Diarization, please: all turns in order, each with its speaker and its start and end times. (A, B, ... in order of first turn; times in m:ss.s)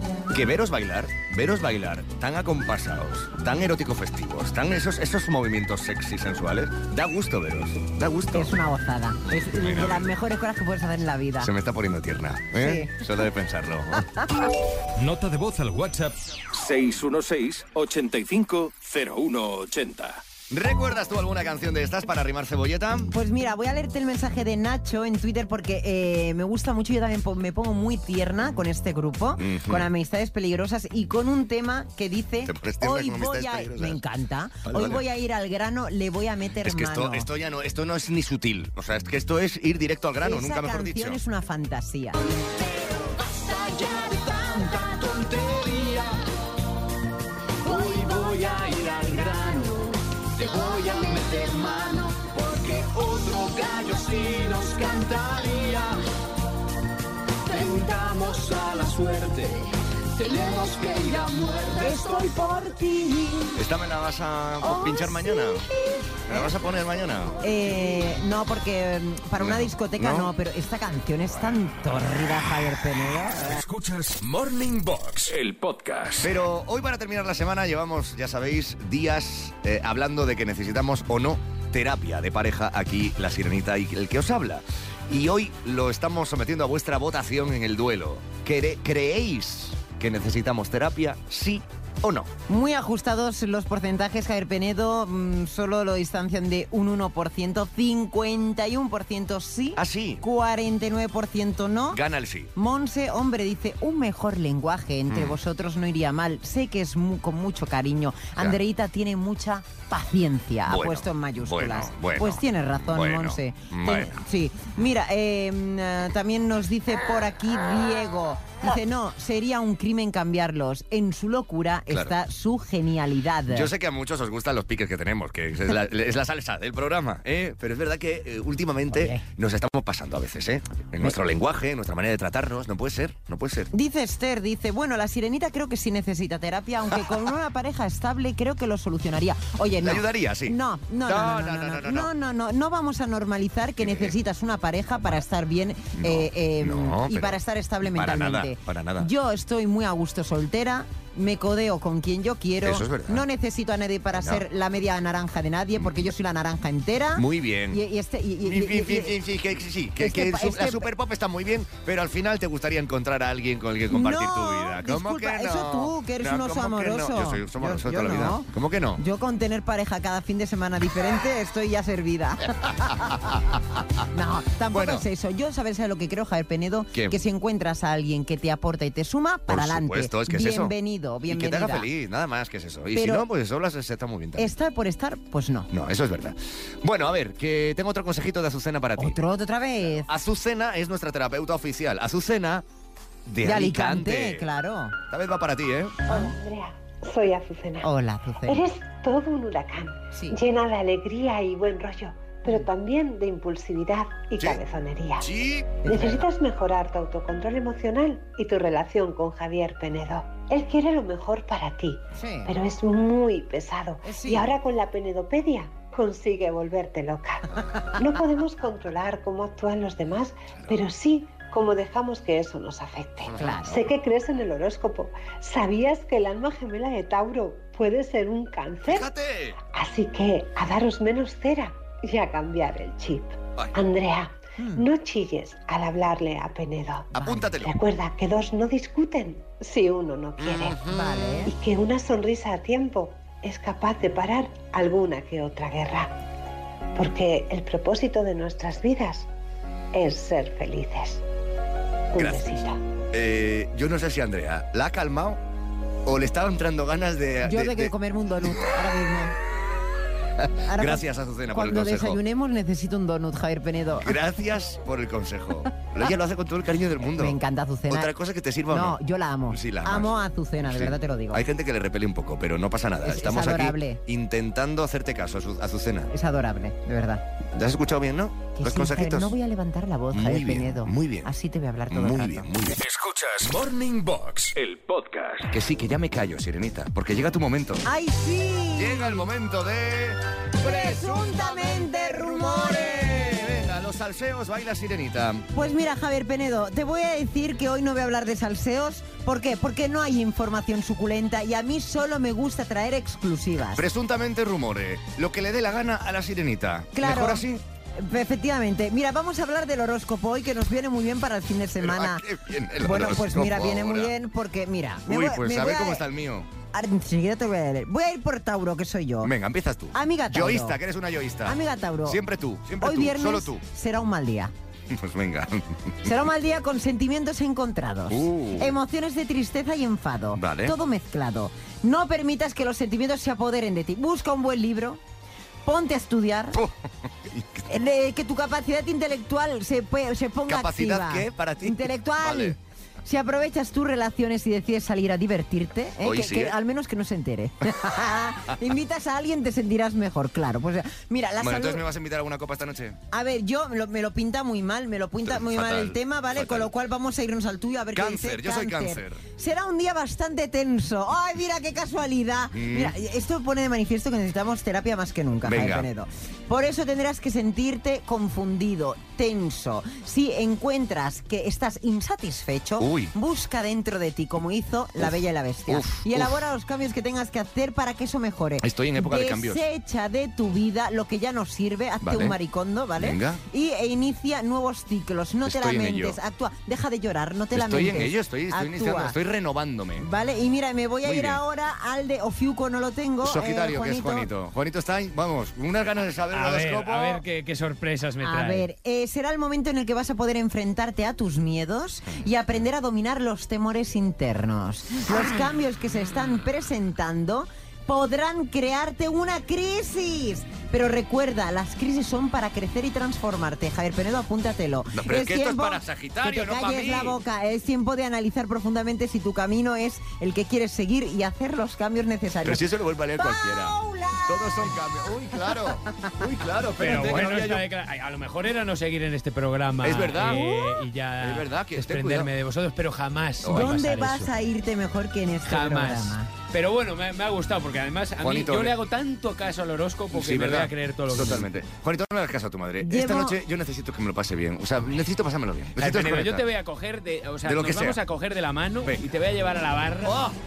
0:00.3-0:08.6 A
0:08.3-0:11.5 B
0:09.3-0:10.1 A
0:11.4-0:14.1 A
0:12.6-0:13.0 B
0:15.0-0:20.2 C
0:20.5-0:23.1 A
0:23.1-0:37.3 B
0:29.4-0:29.9 A
0:32.4-0:34.0 A
0:34.6-0:35.0 A
0:36.6-0:41.2 A
0:40.2-0:42.2 B
0:42.3-0:46.2 D
0:47.6-0:56.0 D
0:57.5-1:02.7 D
1:01.7-1:03.5 B
1:03.5-1:05.7 A
1:04.6-1:05.5 B
1:06.3-1:07.4 A
1:07.4-1:13.6 B
1:09.4-1:10.3 A
1:13.4-1:16.4 C
1:16.2-1:32.3 A
1:32.5-1:42.0 B
1:39.8-1:40.2 A
1:41.9-1:42.5 A
1:42.5-2:03.7 B
1:45.1-1:45.4 A
1:50.6-1:54.2 A
2:01.9-2:02.2 A
2:03.5-2:13.7 A
2:08.9-2:09.2 B
2:13.7-2:39.1 B
2:16.9-2:17.3 A
2:19.8-2:22.1 A
2:23.8-2:24.2 A
2:26.0-2:29.1 A
2:32.6-2:33.2 A
2:34.1-2:34.4 A
2:35.8-2:36.1 A
2:37.2-2:37.8 A
2:38.4-2:49.0 A
2:40.0-2:40.9 B
2:43.9-2:53.3 B
2:52.8-2:53.8 A
2:54.1-3:01.9 B
2:54.7-2:55.0 A
2:59.5-3:00.7 A
3:01.3-3:04.5 A
3:02.9-3:03.2 B
3:04.4-3:05.7 B
3:05.7-3:09.2 A
3:09.0-3:10.1 B
3:09.9-3:12.6 A
3:13.2-3:14.5 A
3:13.4-3:14.9 B
3:15.1-3:16.1 A
3:16.0-3:17.9 E
3:17.8-3:18.6 B
3:18.4-3:25.3 E
3:20.1-3:20.4 B
3:25.2-3:25.8 A
3:25.8-3:49.1 E
3:25.8-3:26.3 B
3:32.1-3:32.5 B
3:34.0-3:34.5 B
3:43.3-3:43.9 B
3:48.8-3:49.6 A
3:49.7-4:00.9 E
3:54.6-3:54.8 B
3:57.1-3:57.7 A
3:57.1-3:57.6 B
4:00.6-4:01.5 B
4:01.4-4:06.2 E
4:07.0-4:09.3 E
4:09.9-4:11.2 E
4:12.1-4:12.8 E
4:12.1-4:15.4 A
4:16.0-4:17.9 A
4:17.4-4:19.3 B
4:20.4-4:22.2 A
4:20.7-4:24.1 B
4:24.0-4:27.4 A
4:27.0-4:28.1 B
4:27.9-4:29.0 A
4:28.7-4:31.4 B
4:29.5-4:36.1 A
4:33.0-4:34.0 B
4:36.1-4:37.2 B
4:37.5-4:39.3 A
4:38.6-4:42.5 B
4:40.1-4:41.3 A
4:41.9-4:42.8 A
4:42.8-4:45.5 C
4:45.5-4:47.8 A
4:47.8-4:49.2 B
4:48.8-4:55.5 A
4:50.6-4:53.6 B
4:55.5-5:03.8 B
5:03.7-5:07.6 A
5:06.9-5:07.4 B
5:08.0-5:12.2 B
5:11.8-5:14.1 A
5:12.8-5:16.0 B
5:15.1-5:16.5 A
5:16.7-5:19.3 B
5:19.2-5:23.6 A
5:19.9-5:20.8 B
5:21.4-5:22.2 B
5:22.8-5:24.5 B
5:24.9-5:26.1 A
5:26.0-5:35.0 B
5:28.1-5:28.8 A
5:30.3-5:30.8 A
5:35.6-5:36.6 B
5:36.5-5:37.7 A
5:37.7-5:51.8 B
5:40.5-5:42.6 A
5:46.0-5:46.6 A
5:51.4-5:53.0 A
5:53.1-6:29.2 B
5:55.2-5:56.7 A
5:57.9-5:59.2 A
6:02.5-6:02.9 A
6:05.4-6:05.9 A
6:12.8-6:13.1 A
6:15.0-6:16.4 A
6:18.6-6:19.6 A
6:22.0-6:22.4 A
6:23.0-6:23.4 A
6:25.4-6:26.2 A
6:27.5-6:30.1 A
6:30.0-6:34.3 B
6:31.0-6:31.4 A
6:33.2-6:37.2 A
6:36.3-6:38.7 F
6:38.2-7:02.6 B
6:54.9-6:57.2 A
7:02.4-7:07.6 A
7:03.2-7:04.3 B
7:06.8-7:14.3 F
7:09.8-7:12.3 A
7:13.4-7:13.8 A
7:13.4-7:16.3 B
7:15.5-7:21.5 F
7:18.2-7:18.8 A
7:20.1-7:26.5 A
7:22.8-7:23.4 B
7:25.8-7:30.2 F
7:27.4-7:28.0 A
7:30.0-7:30.4 A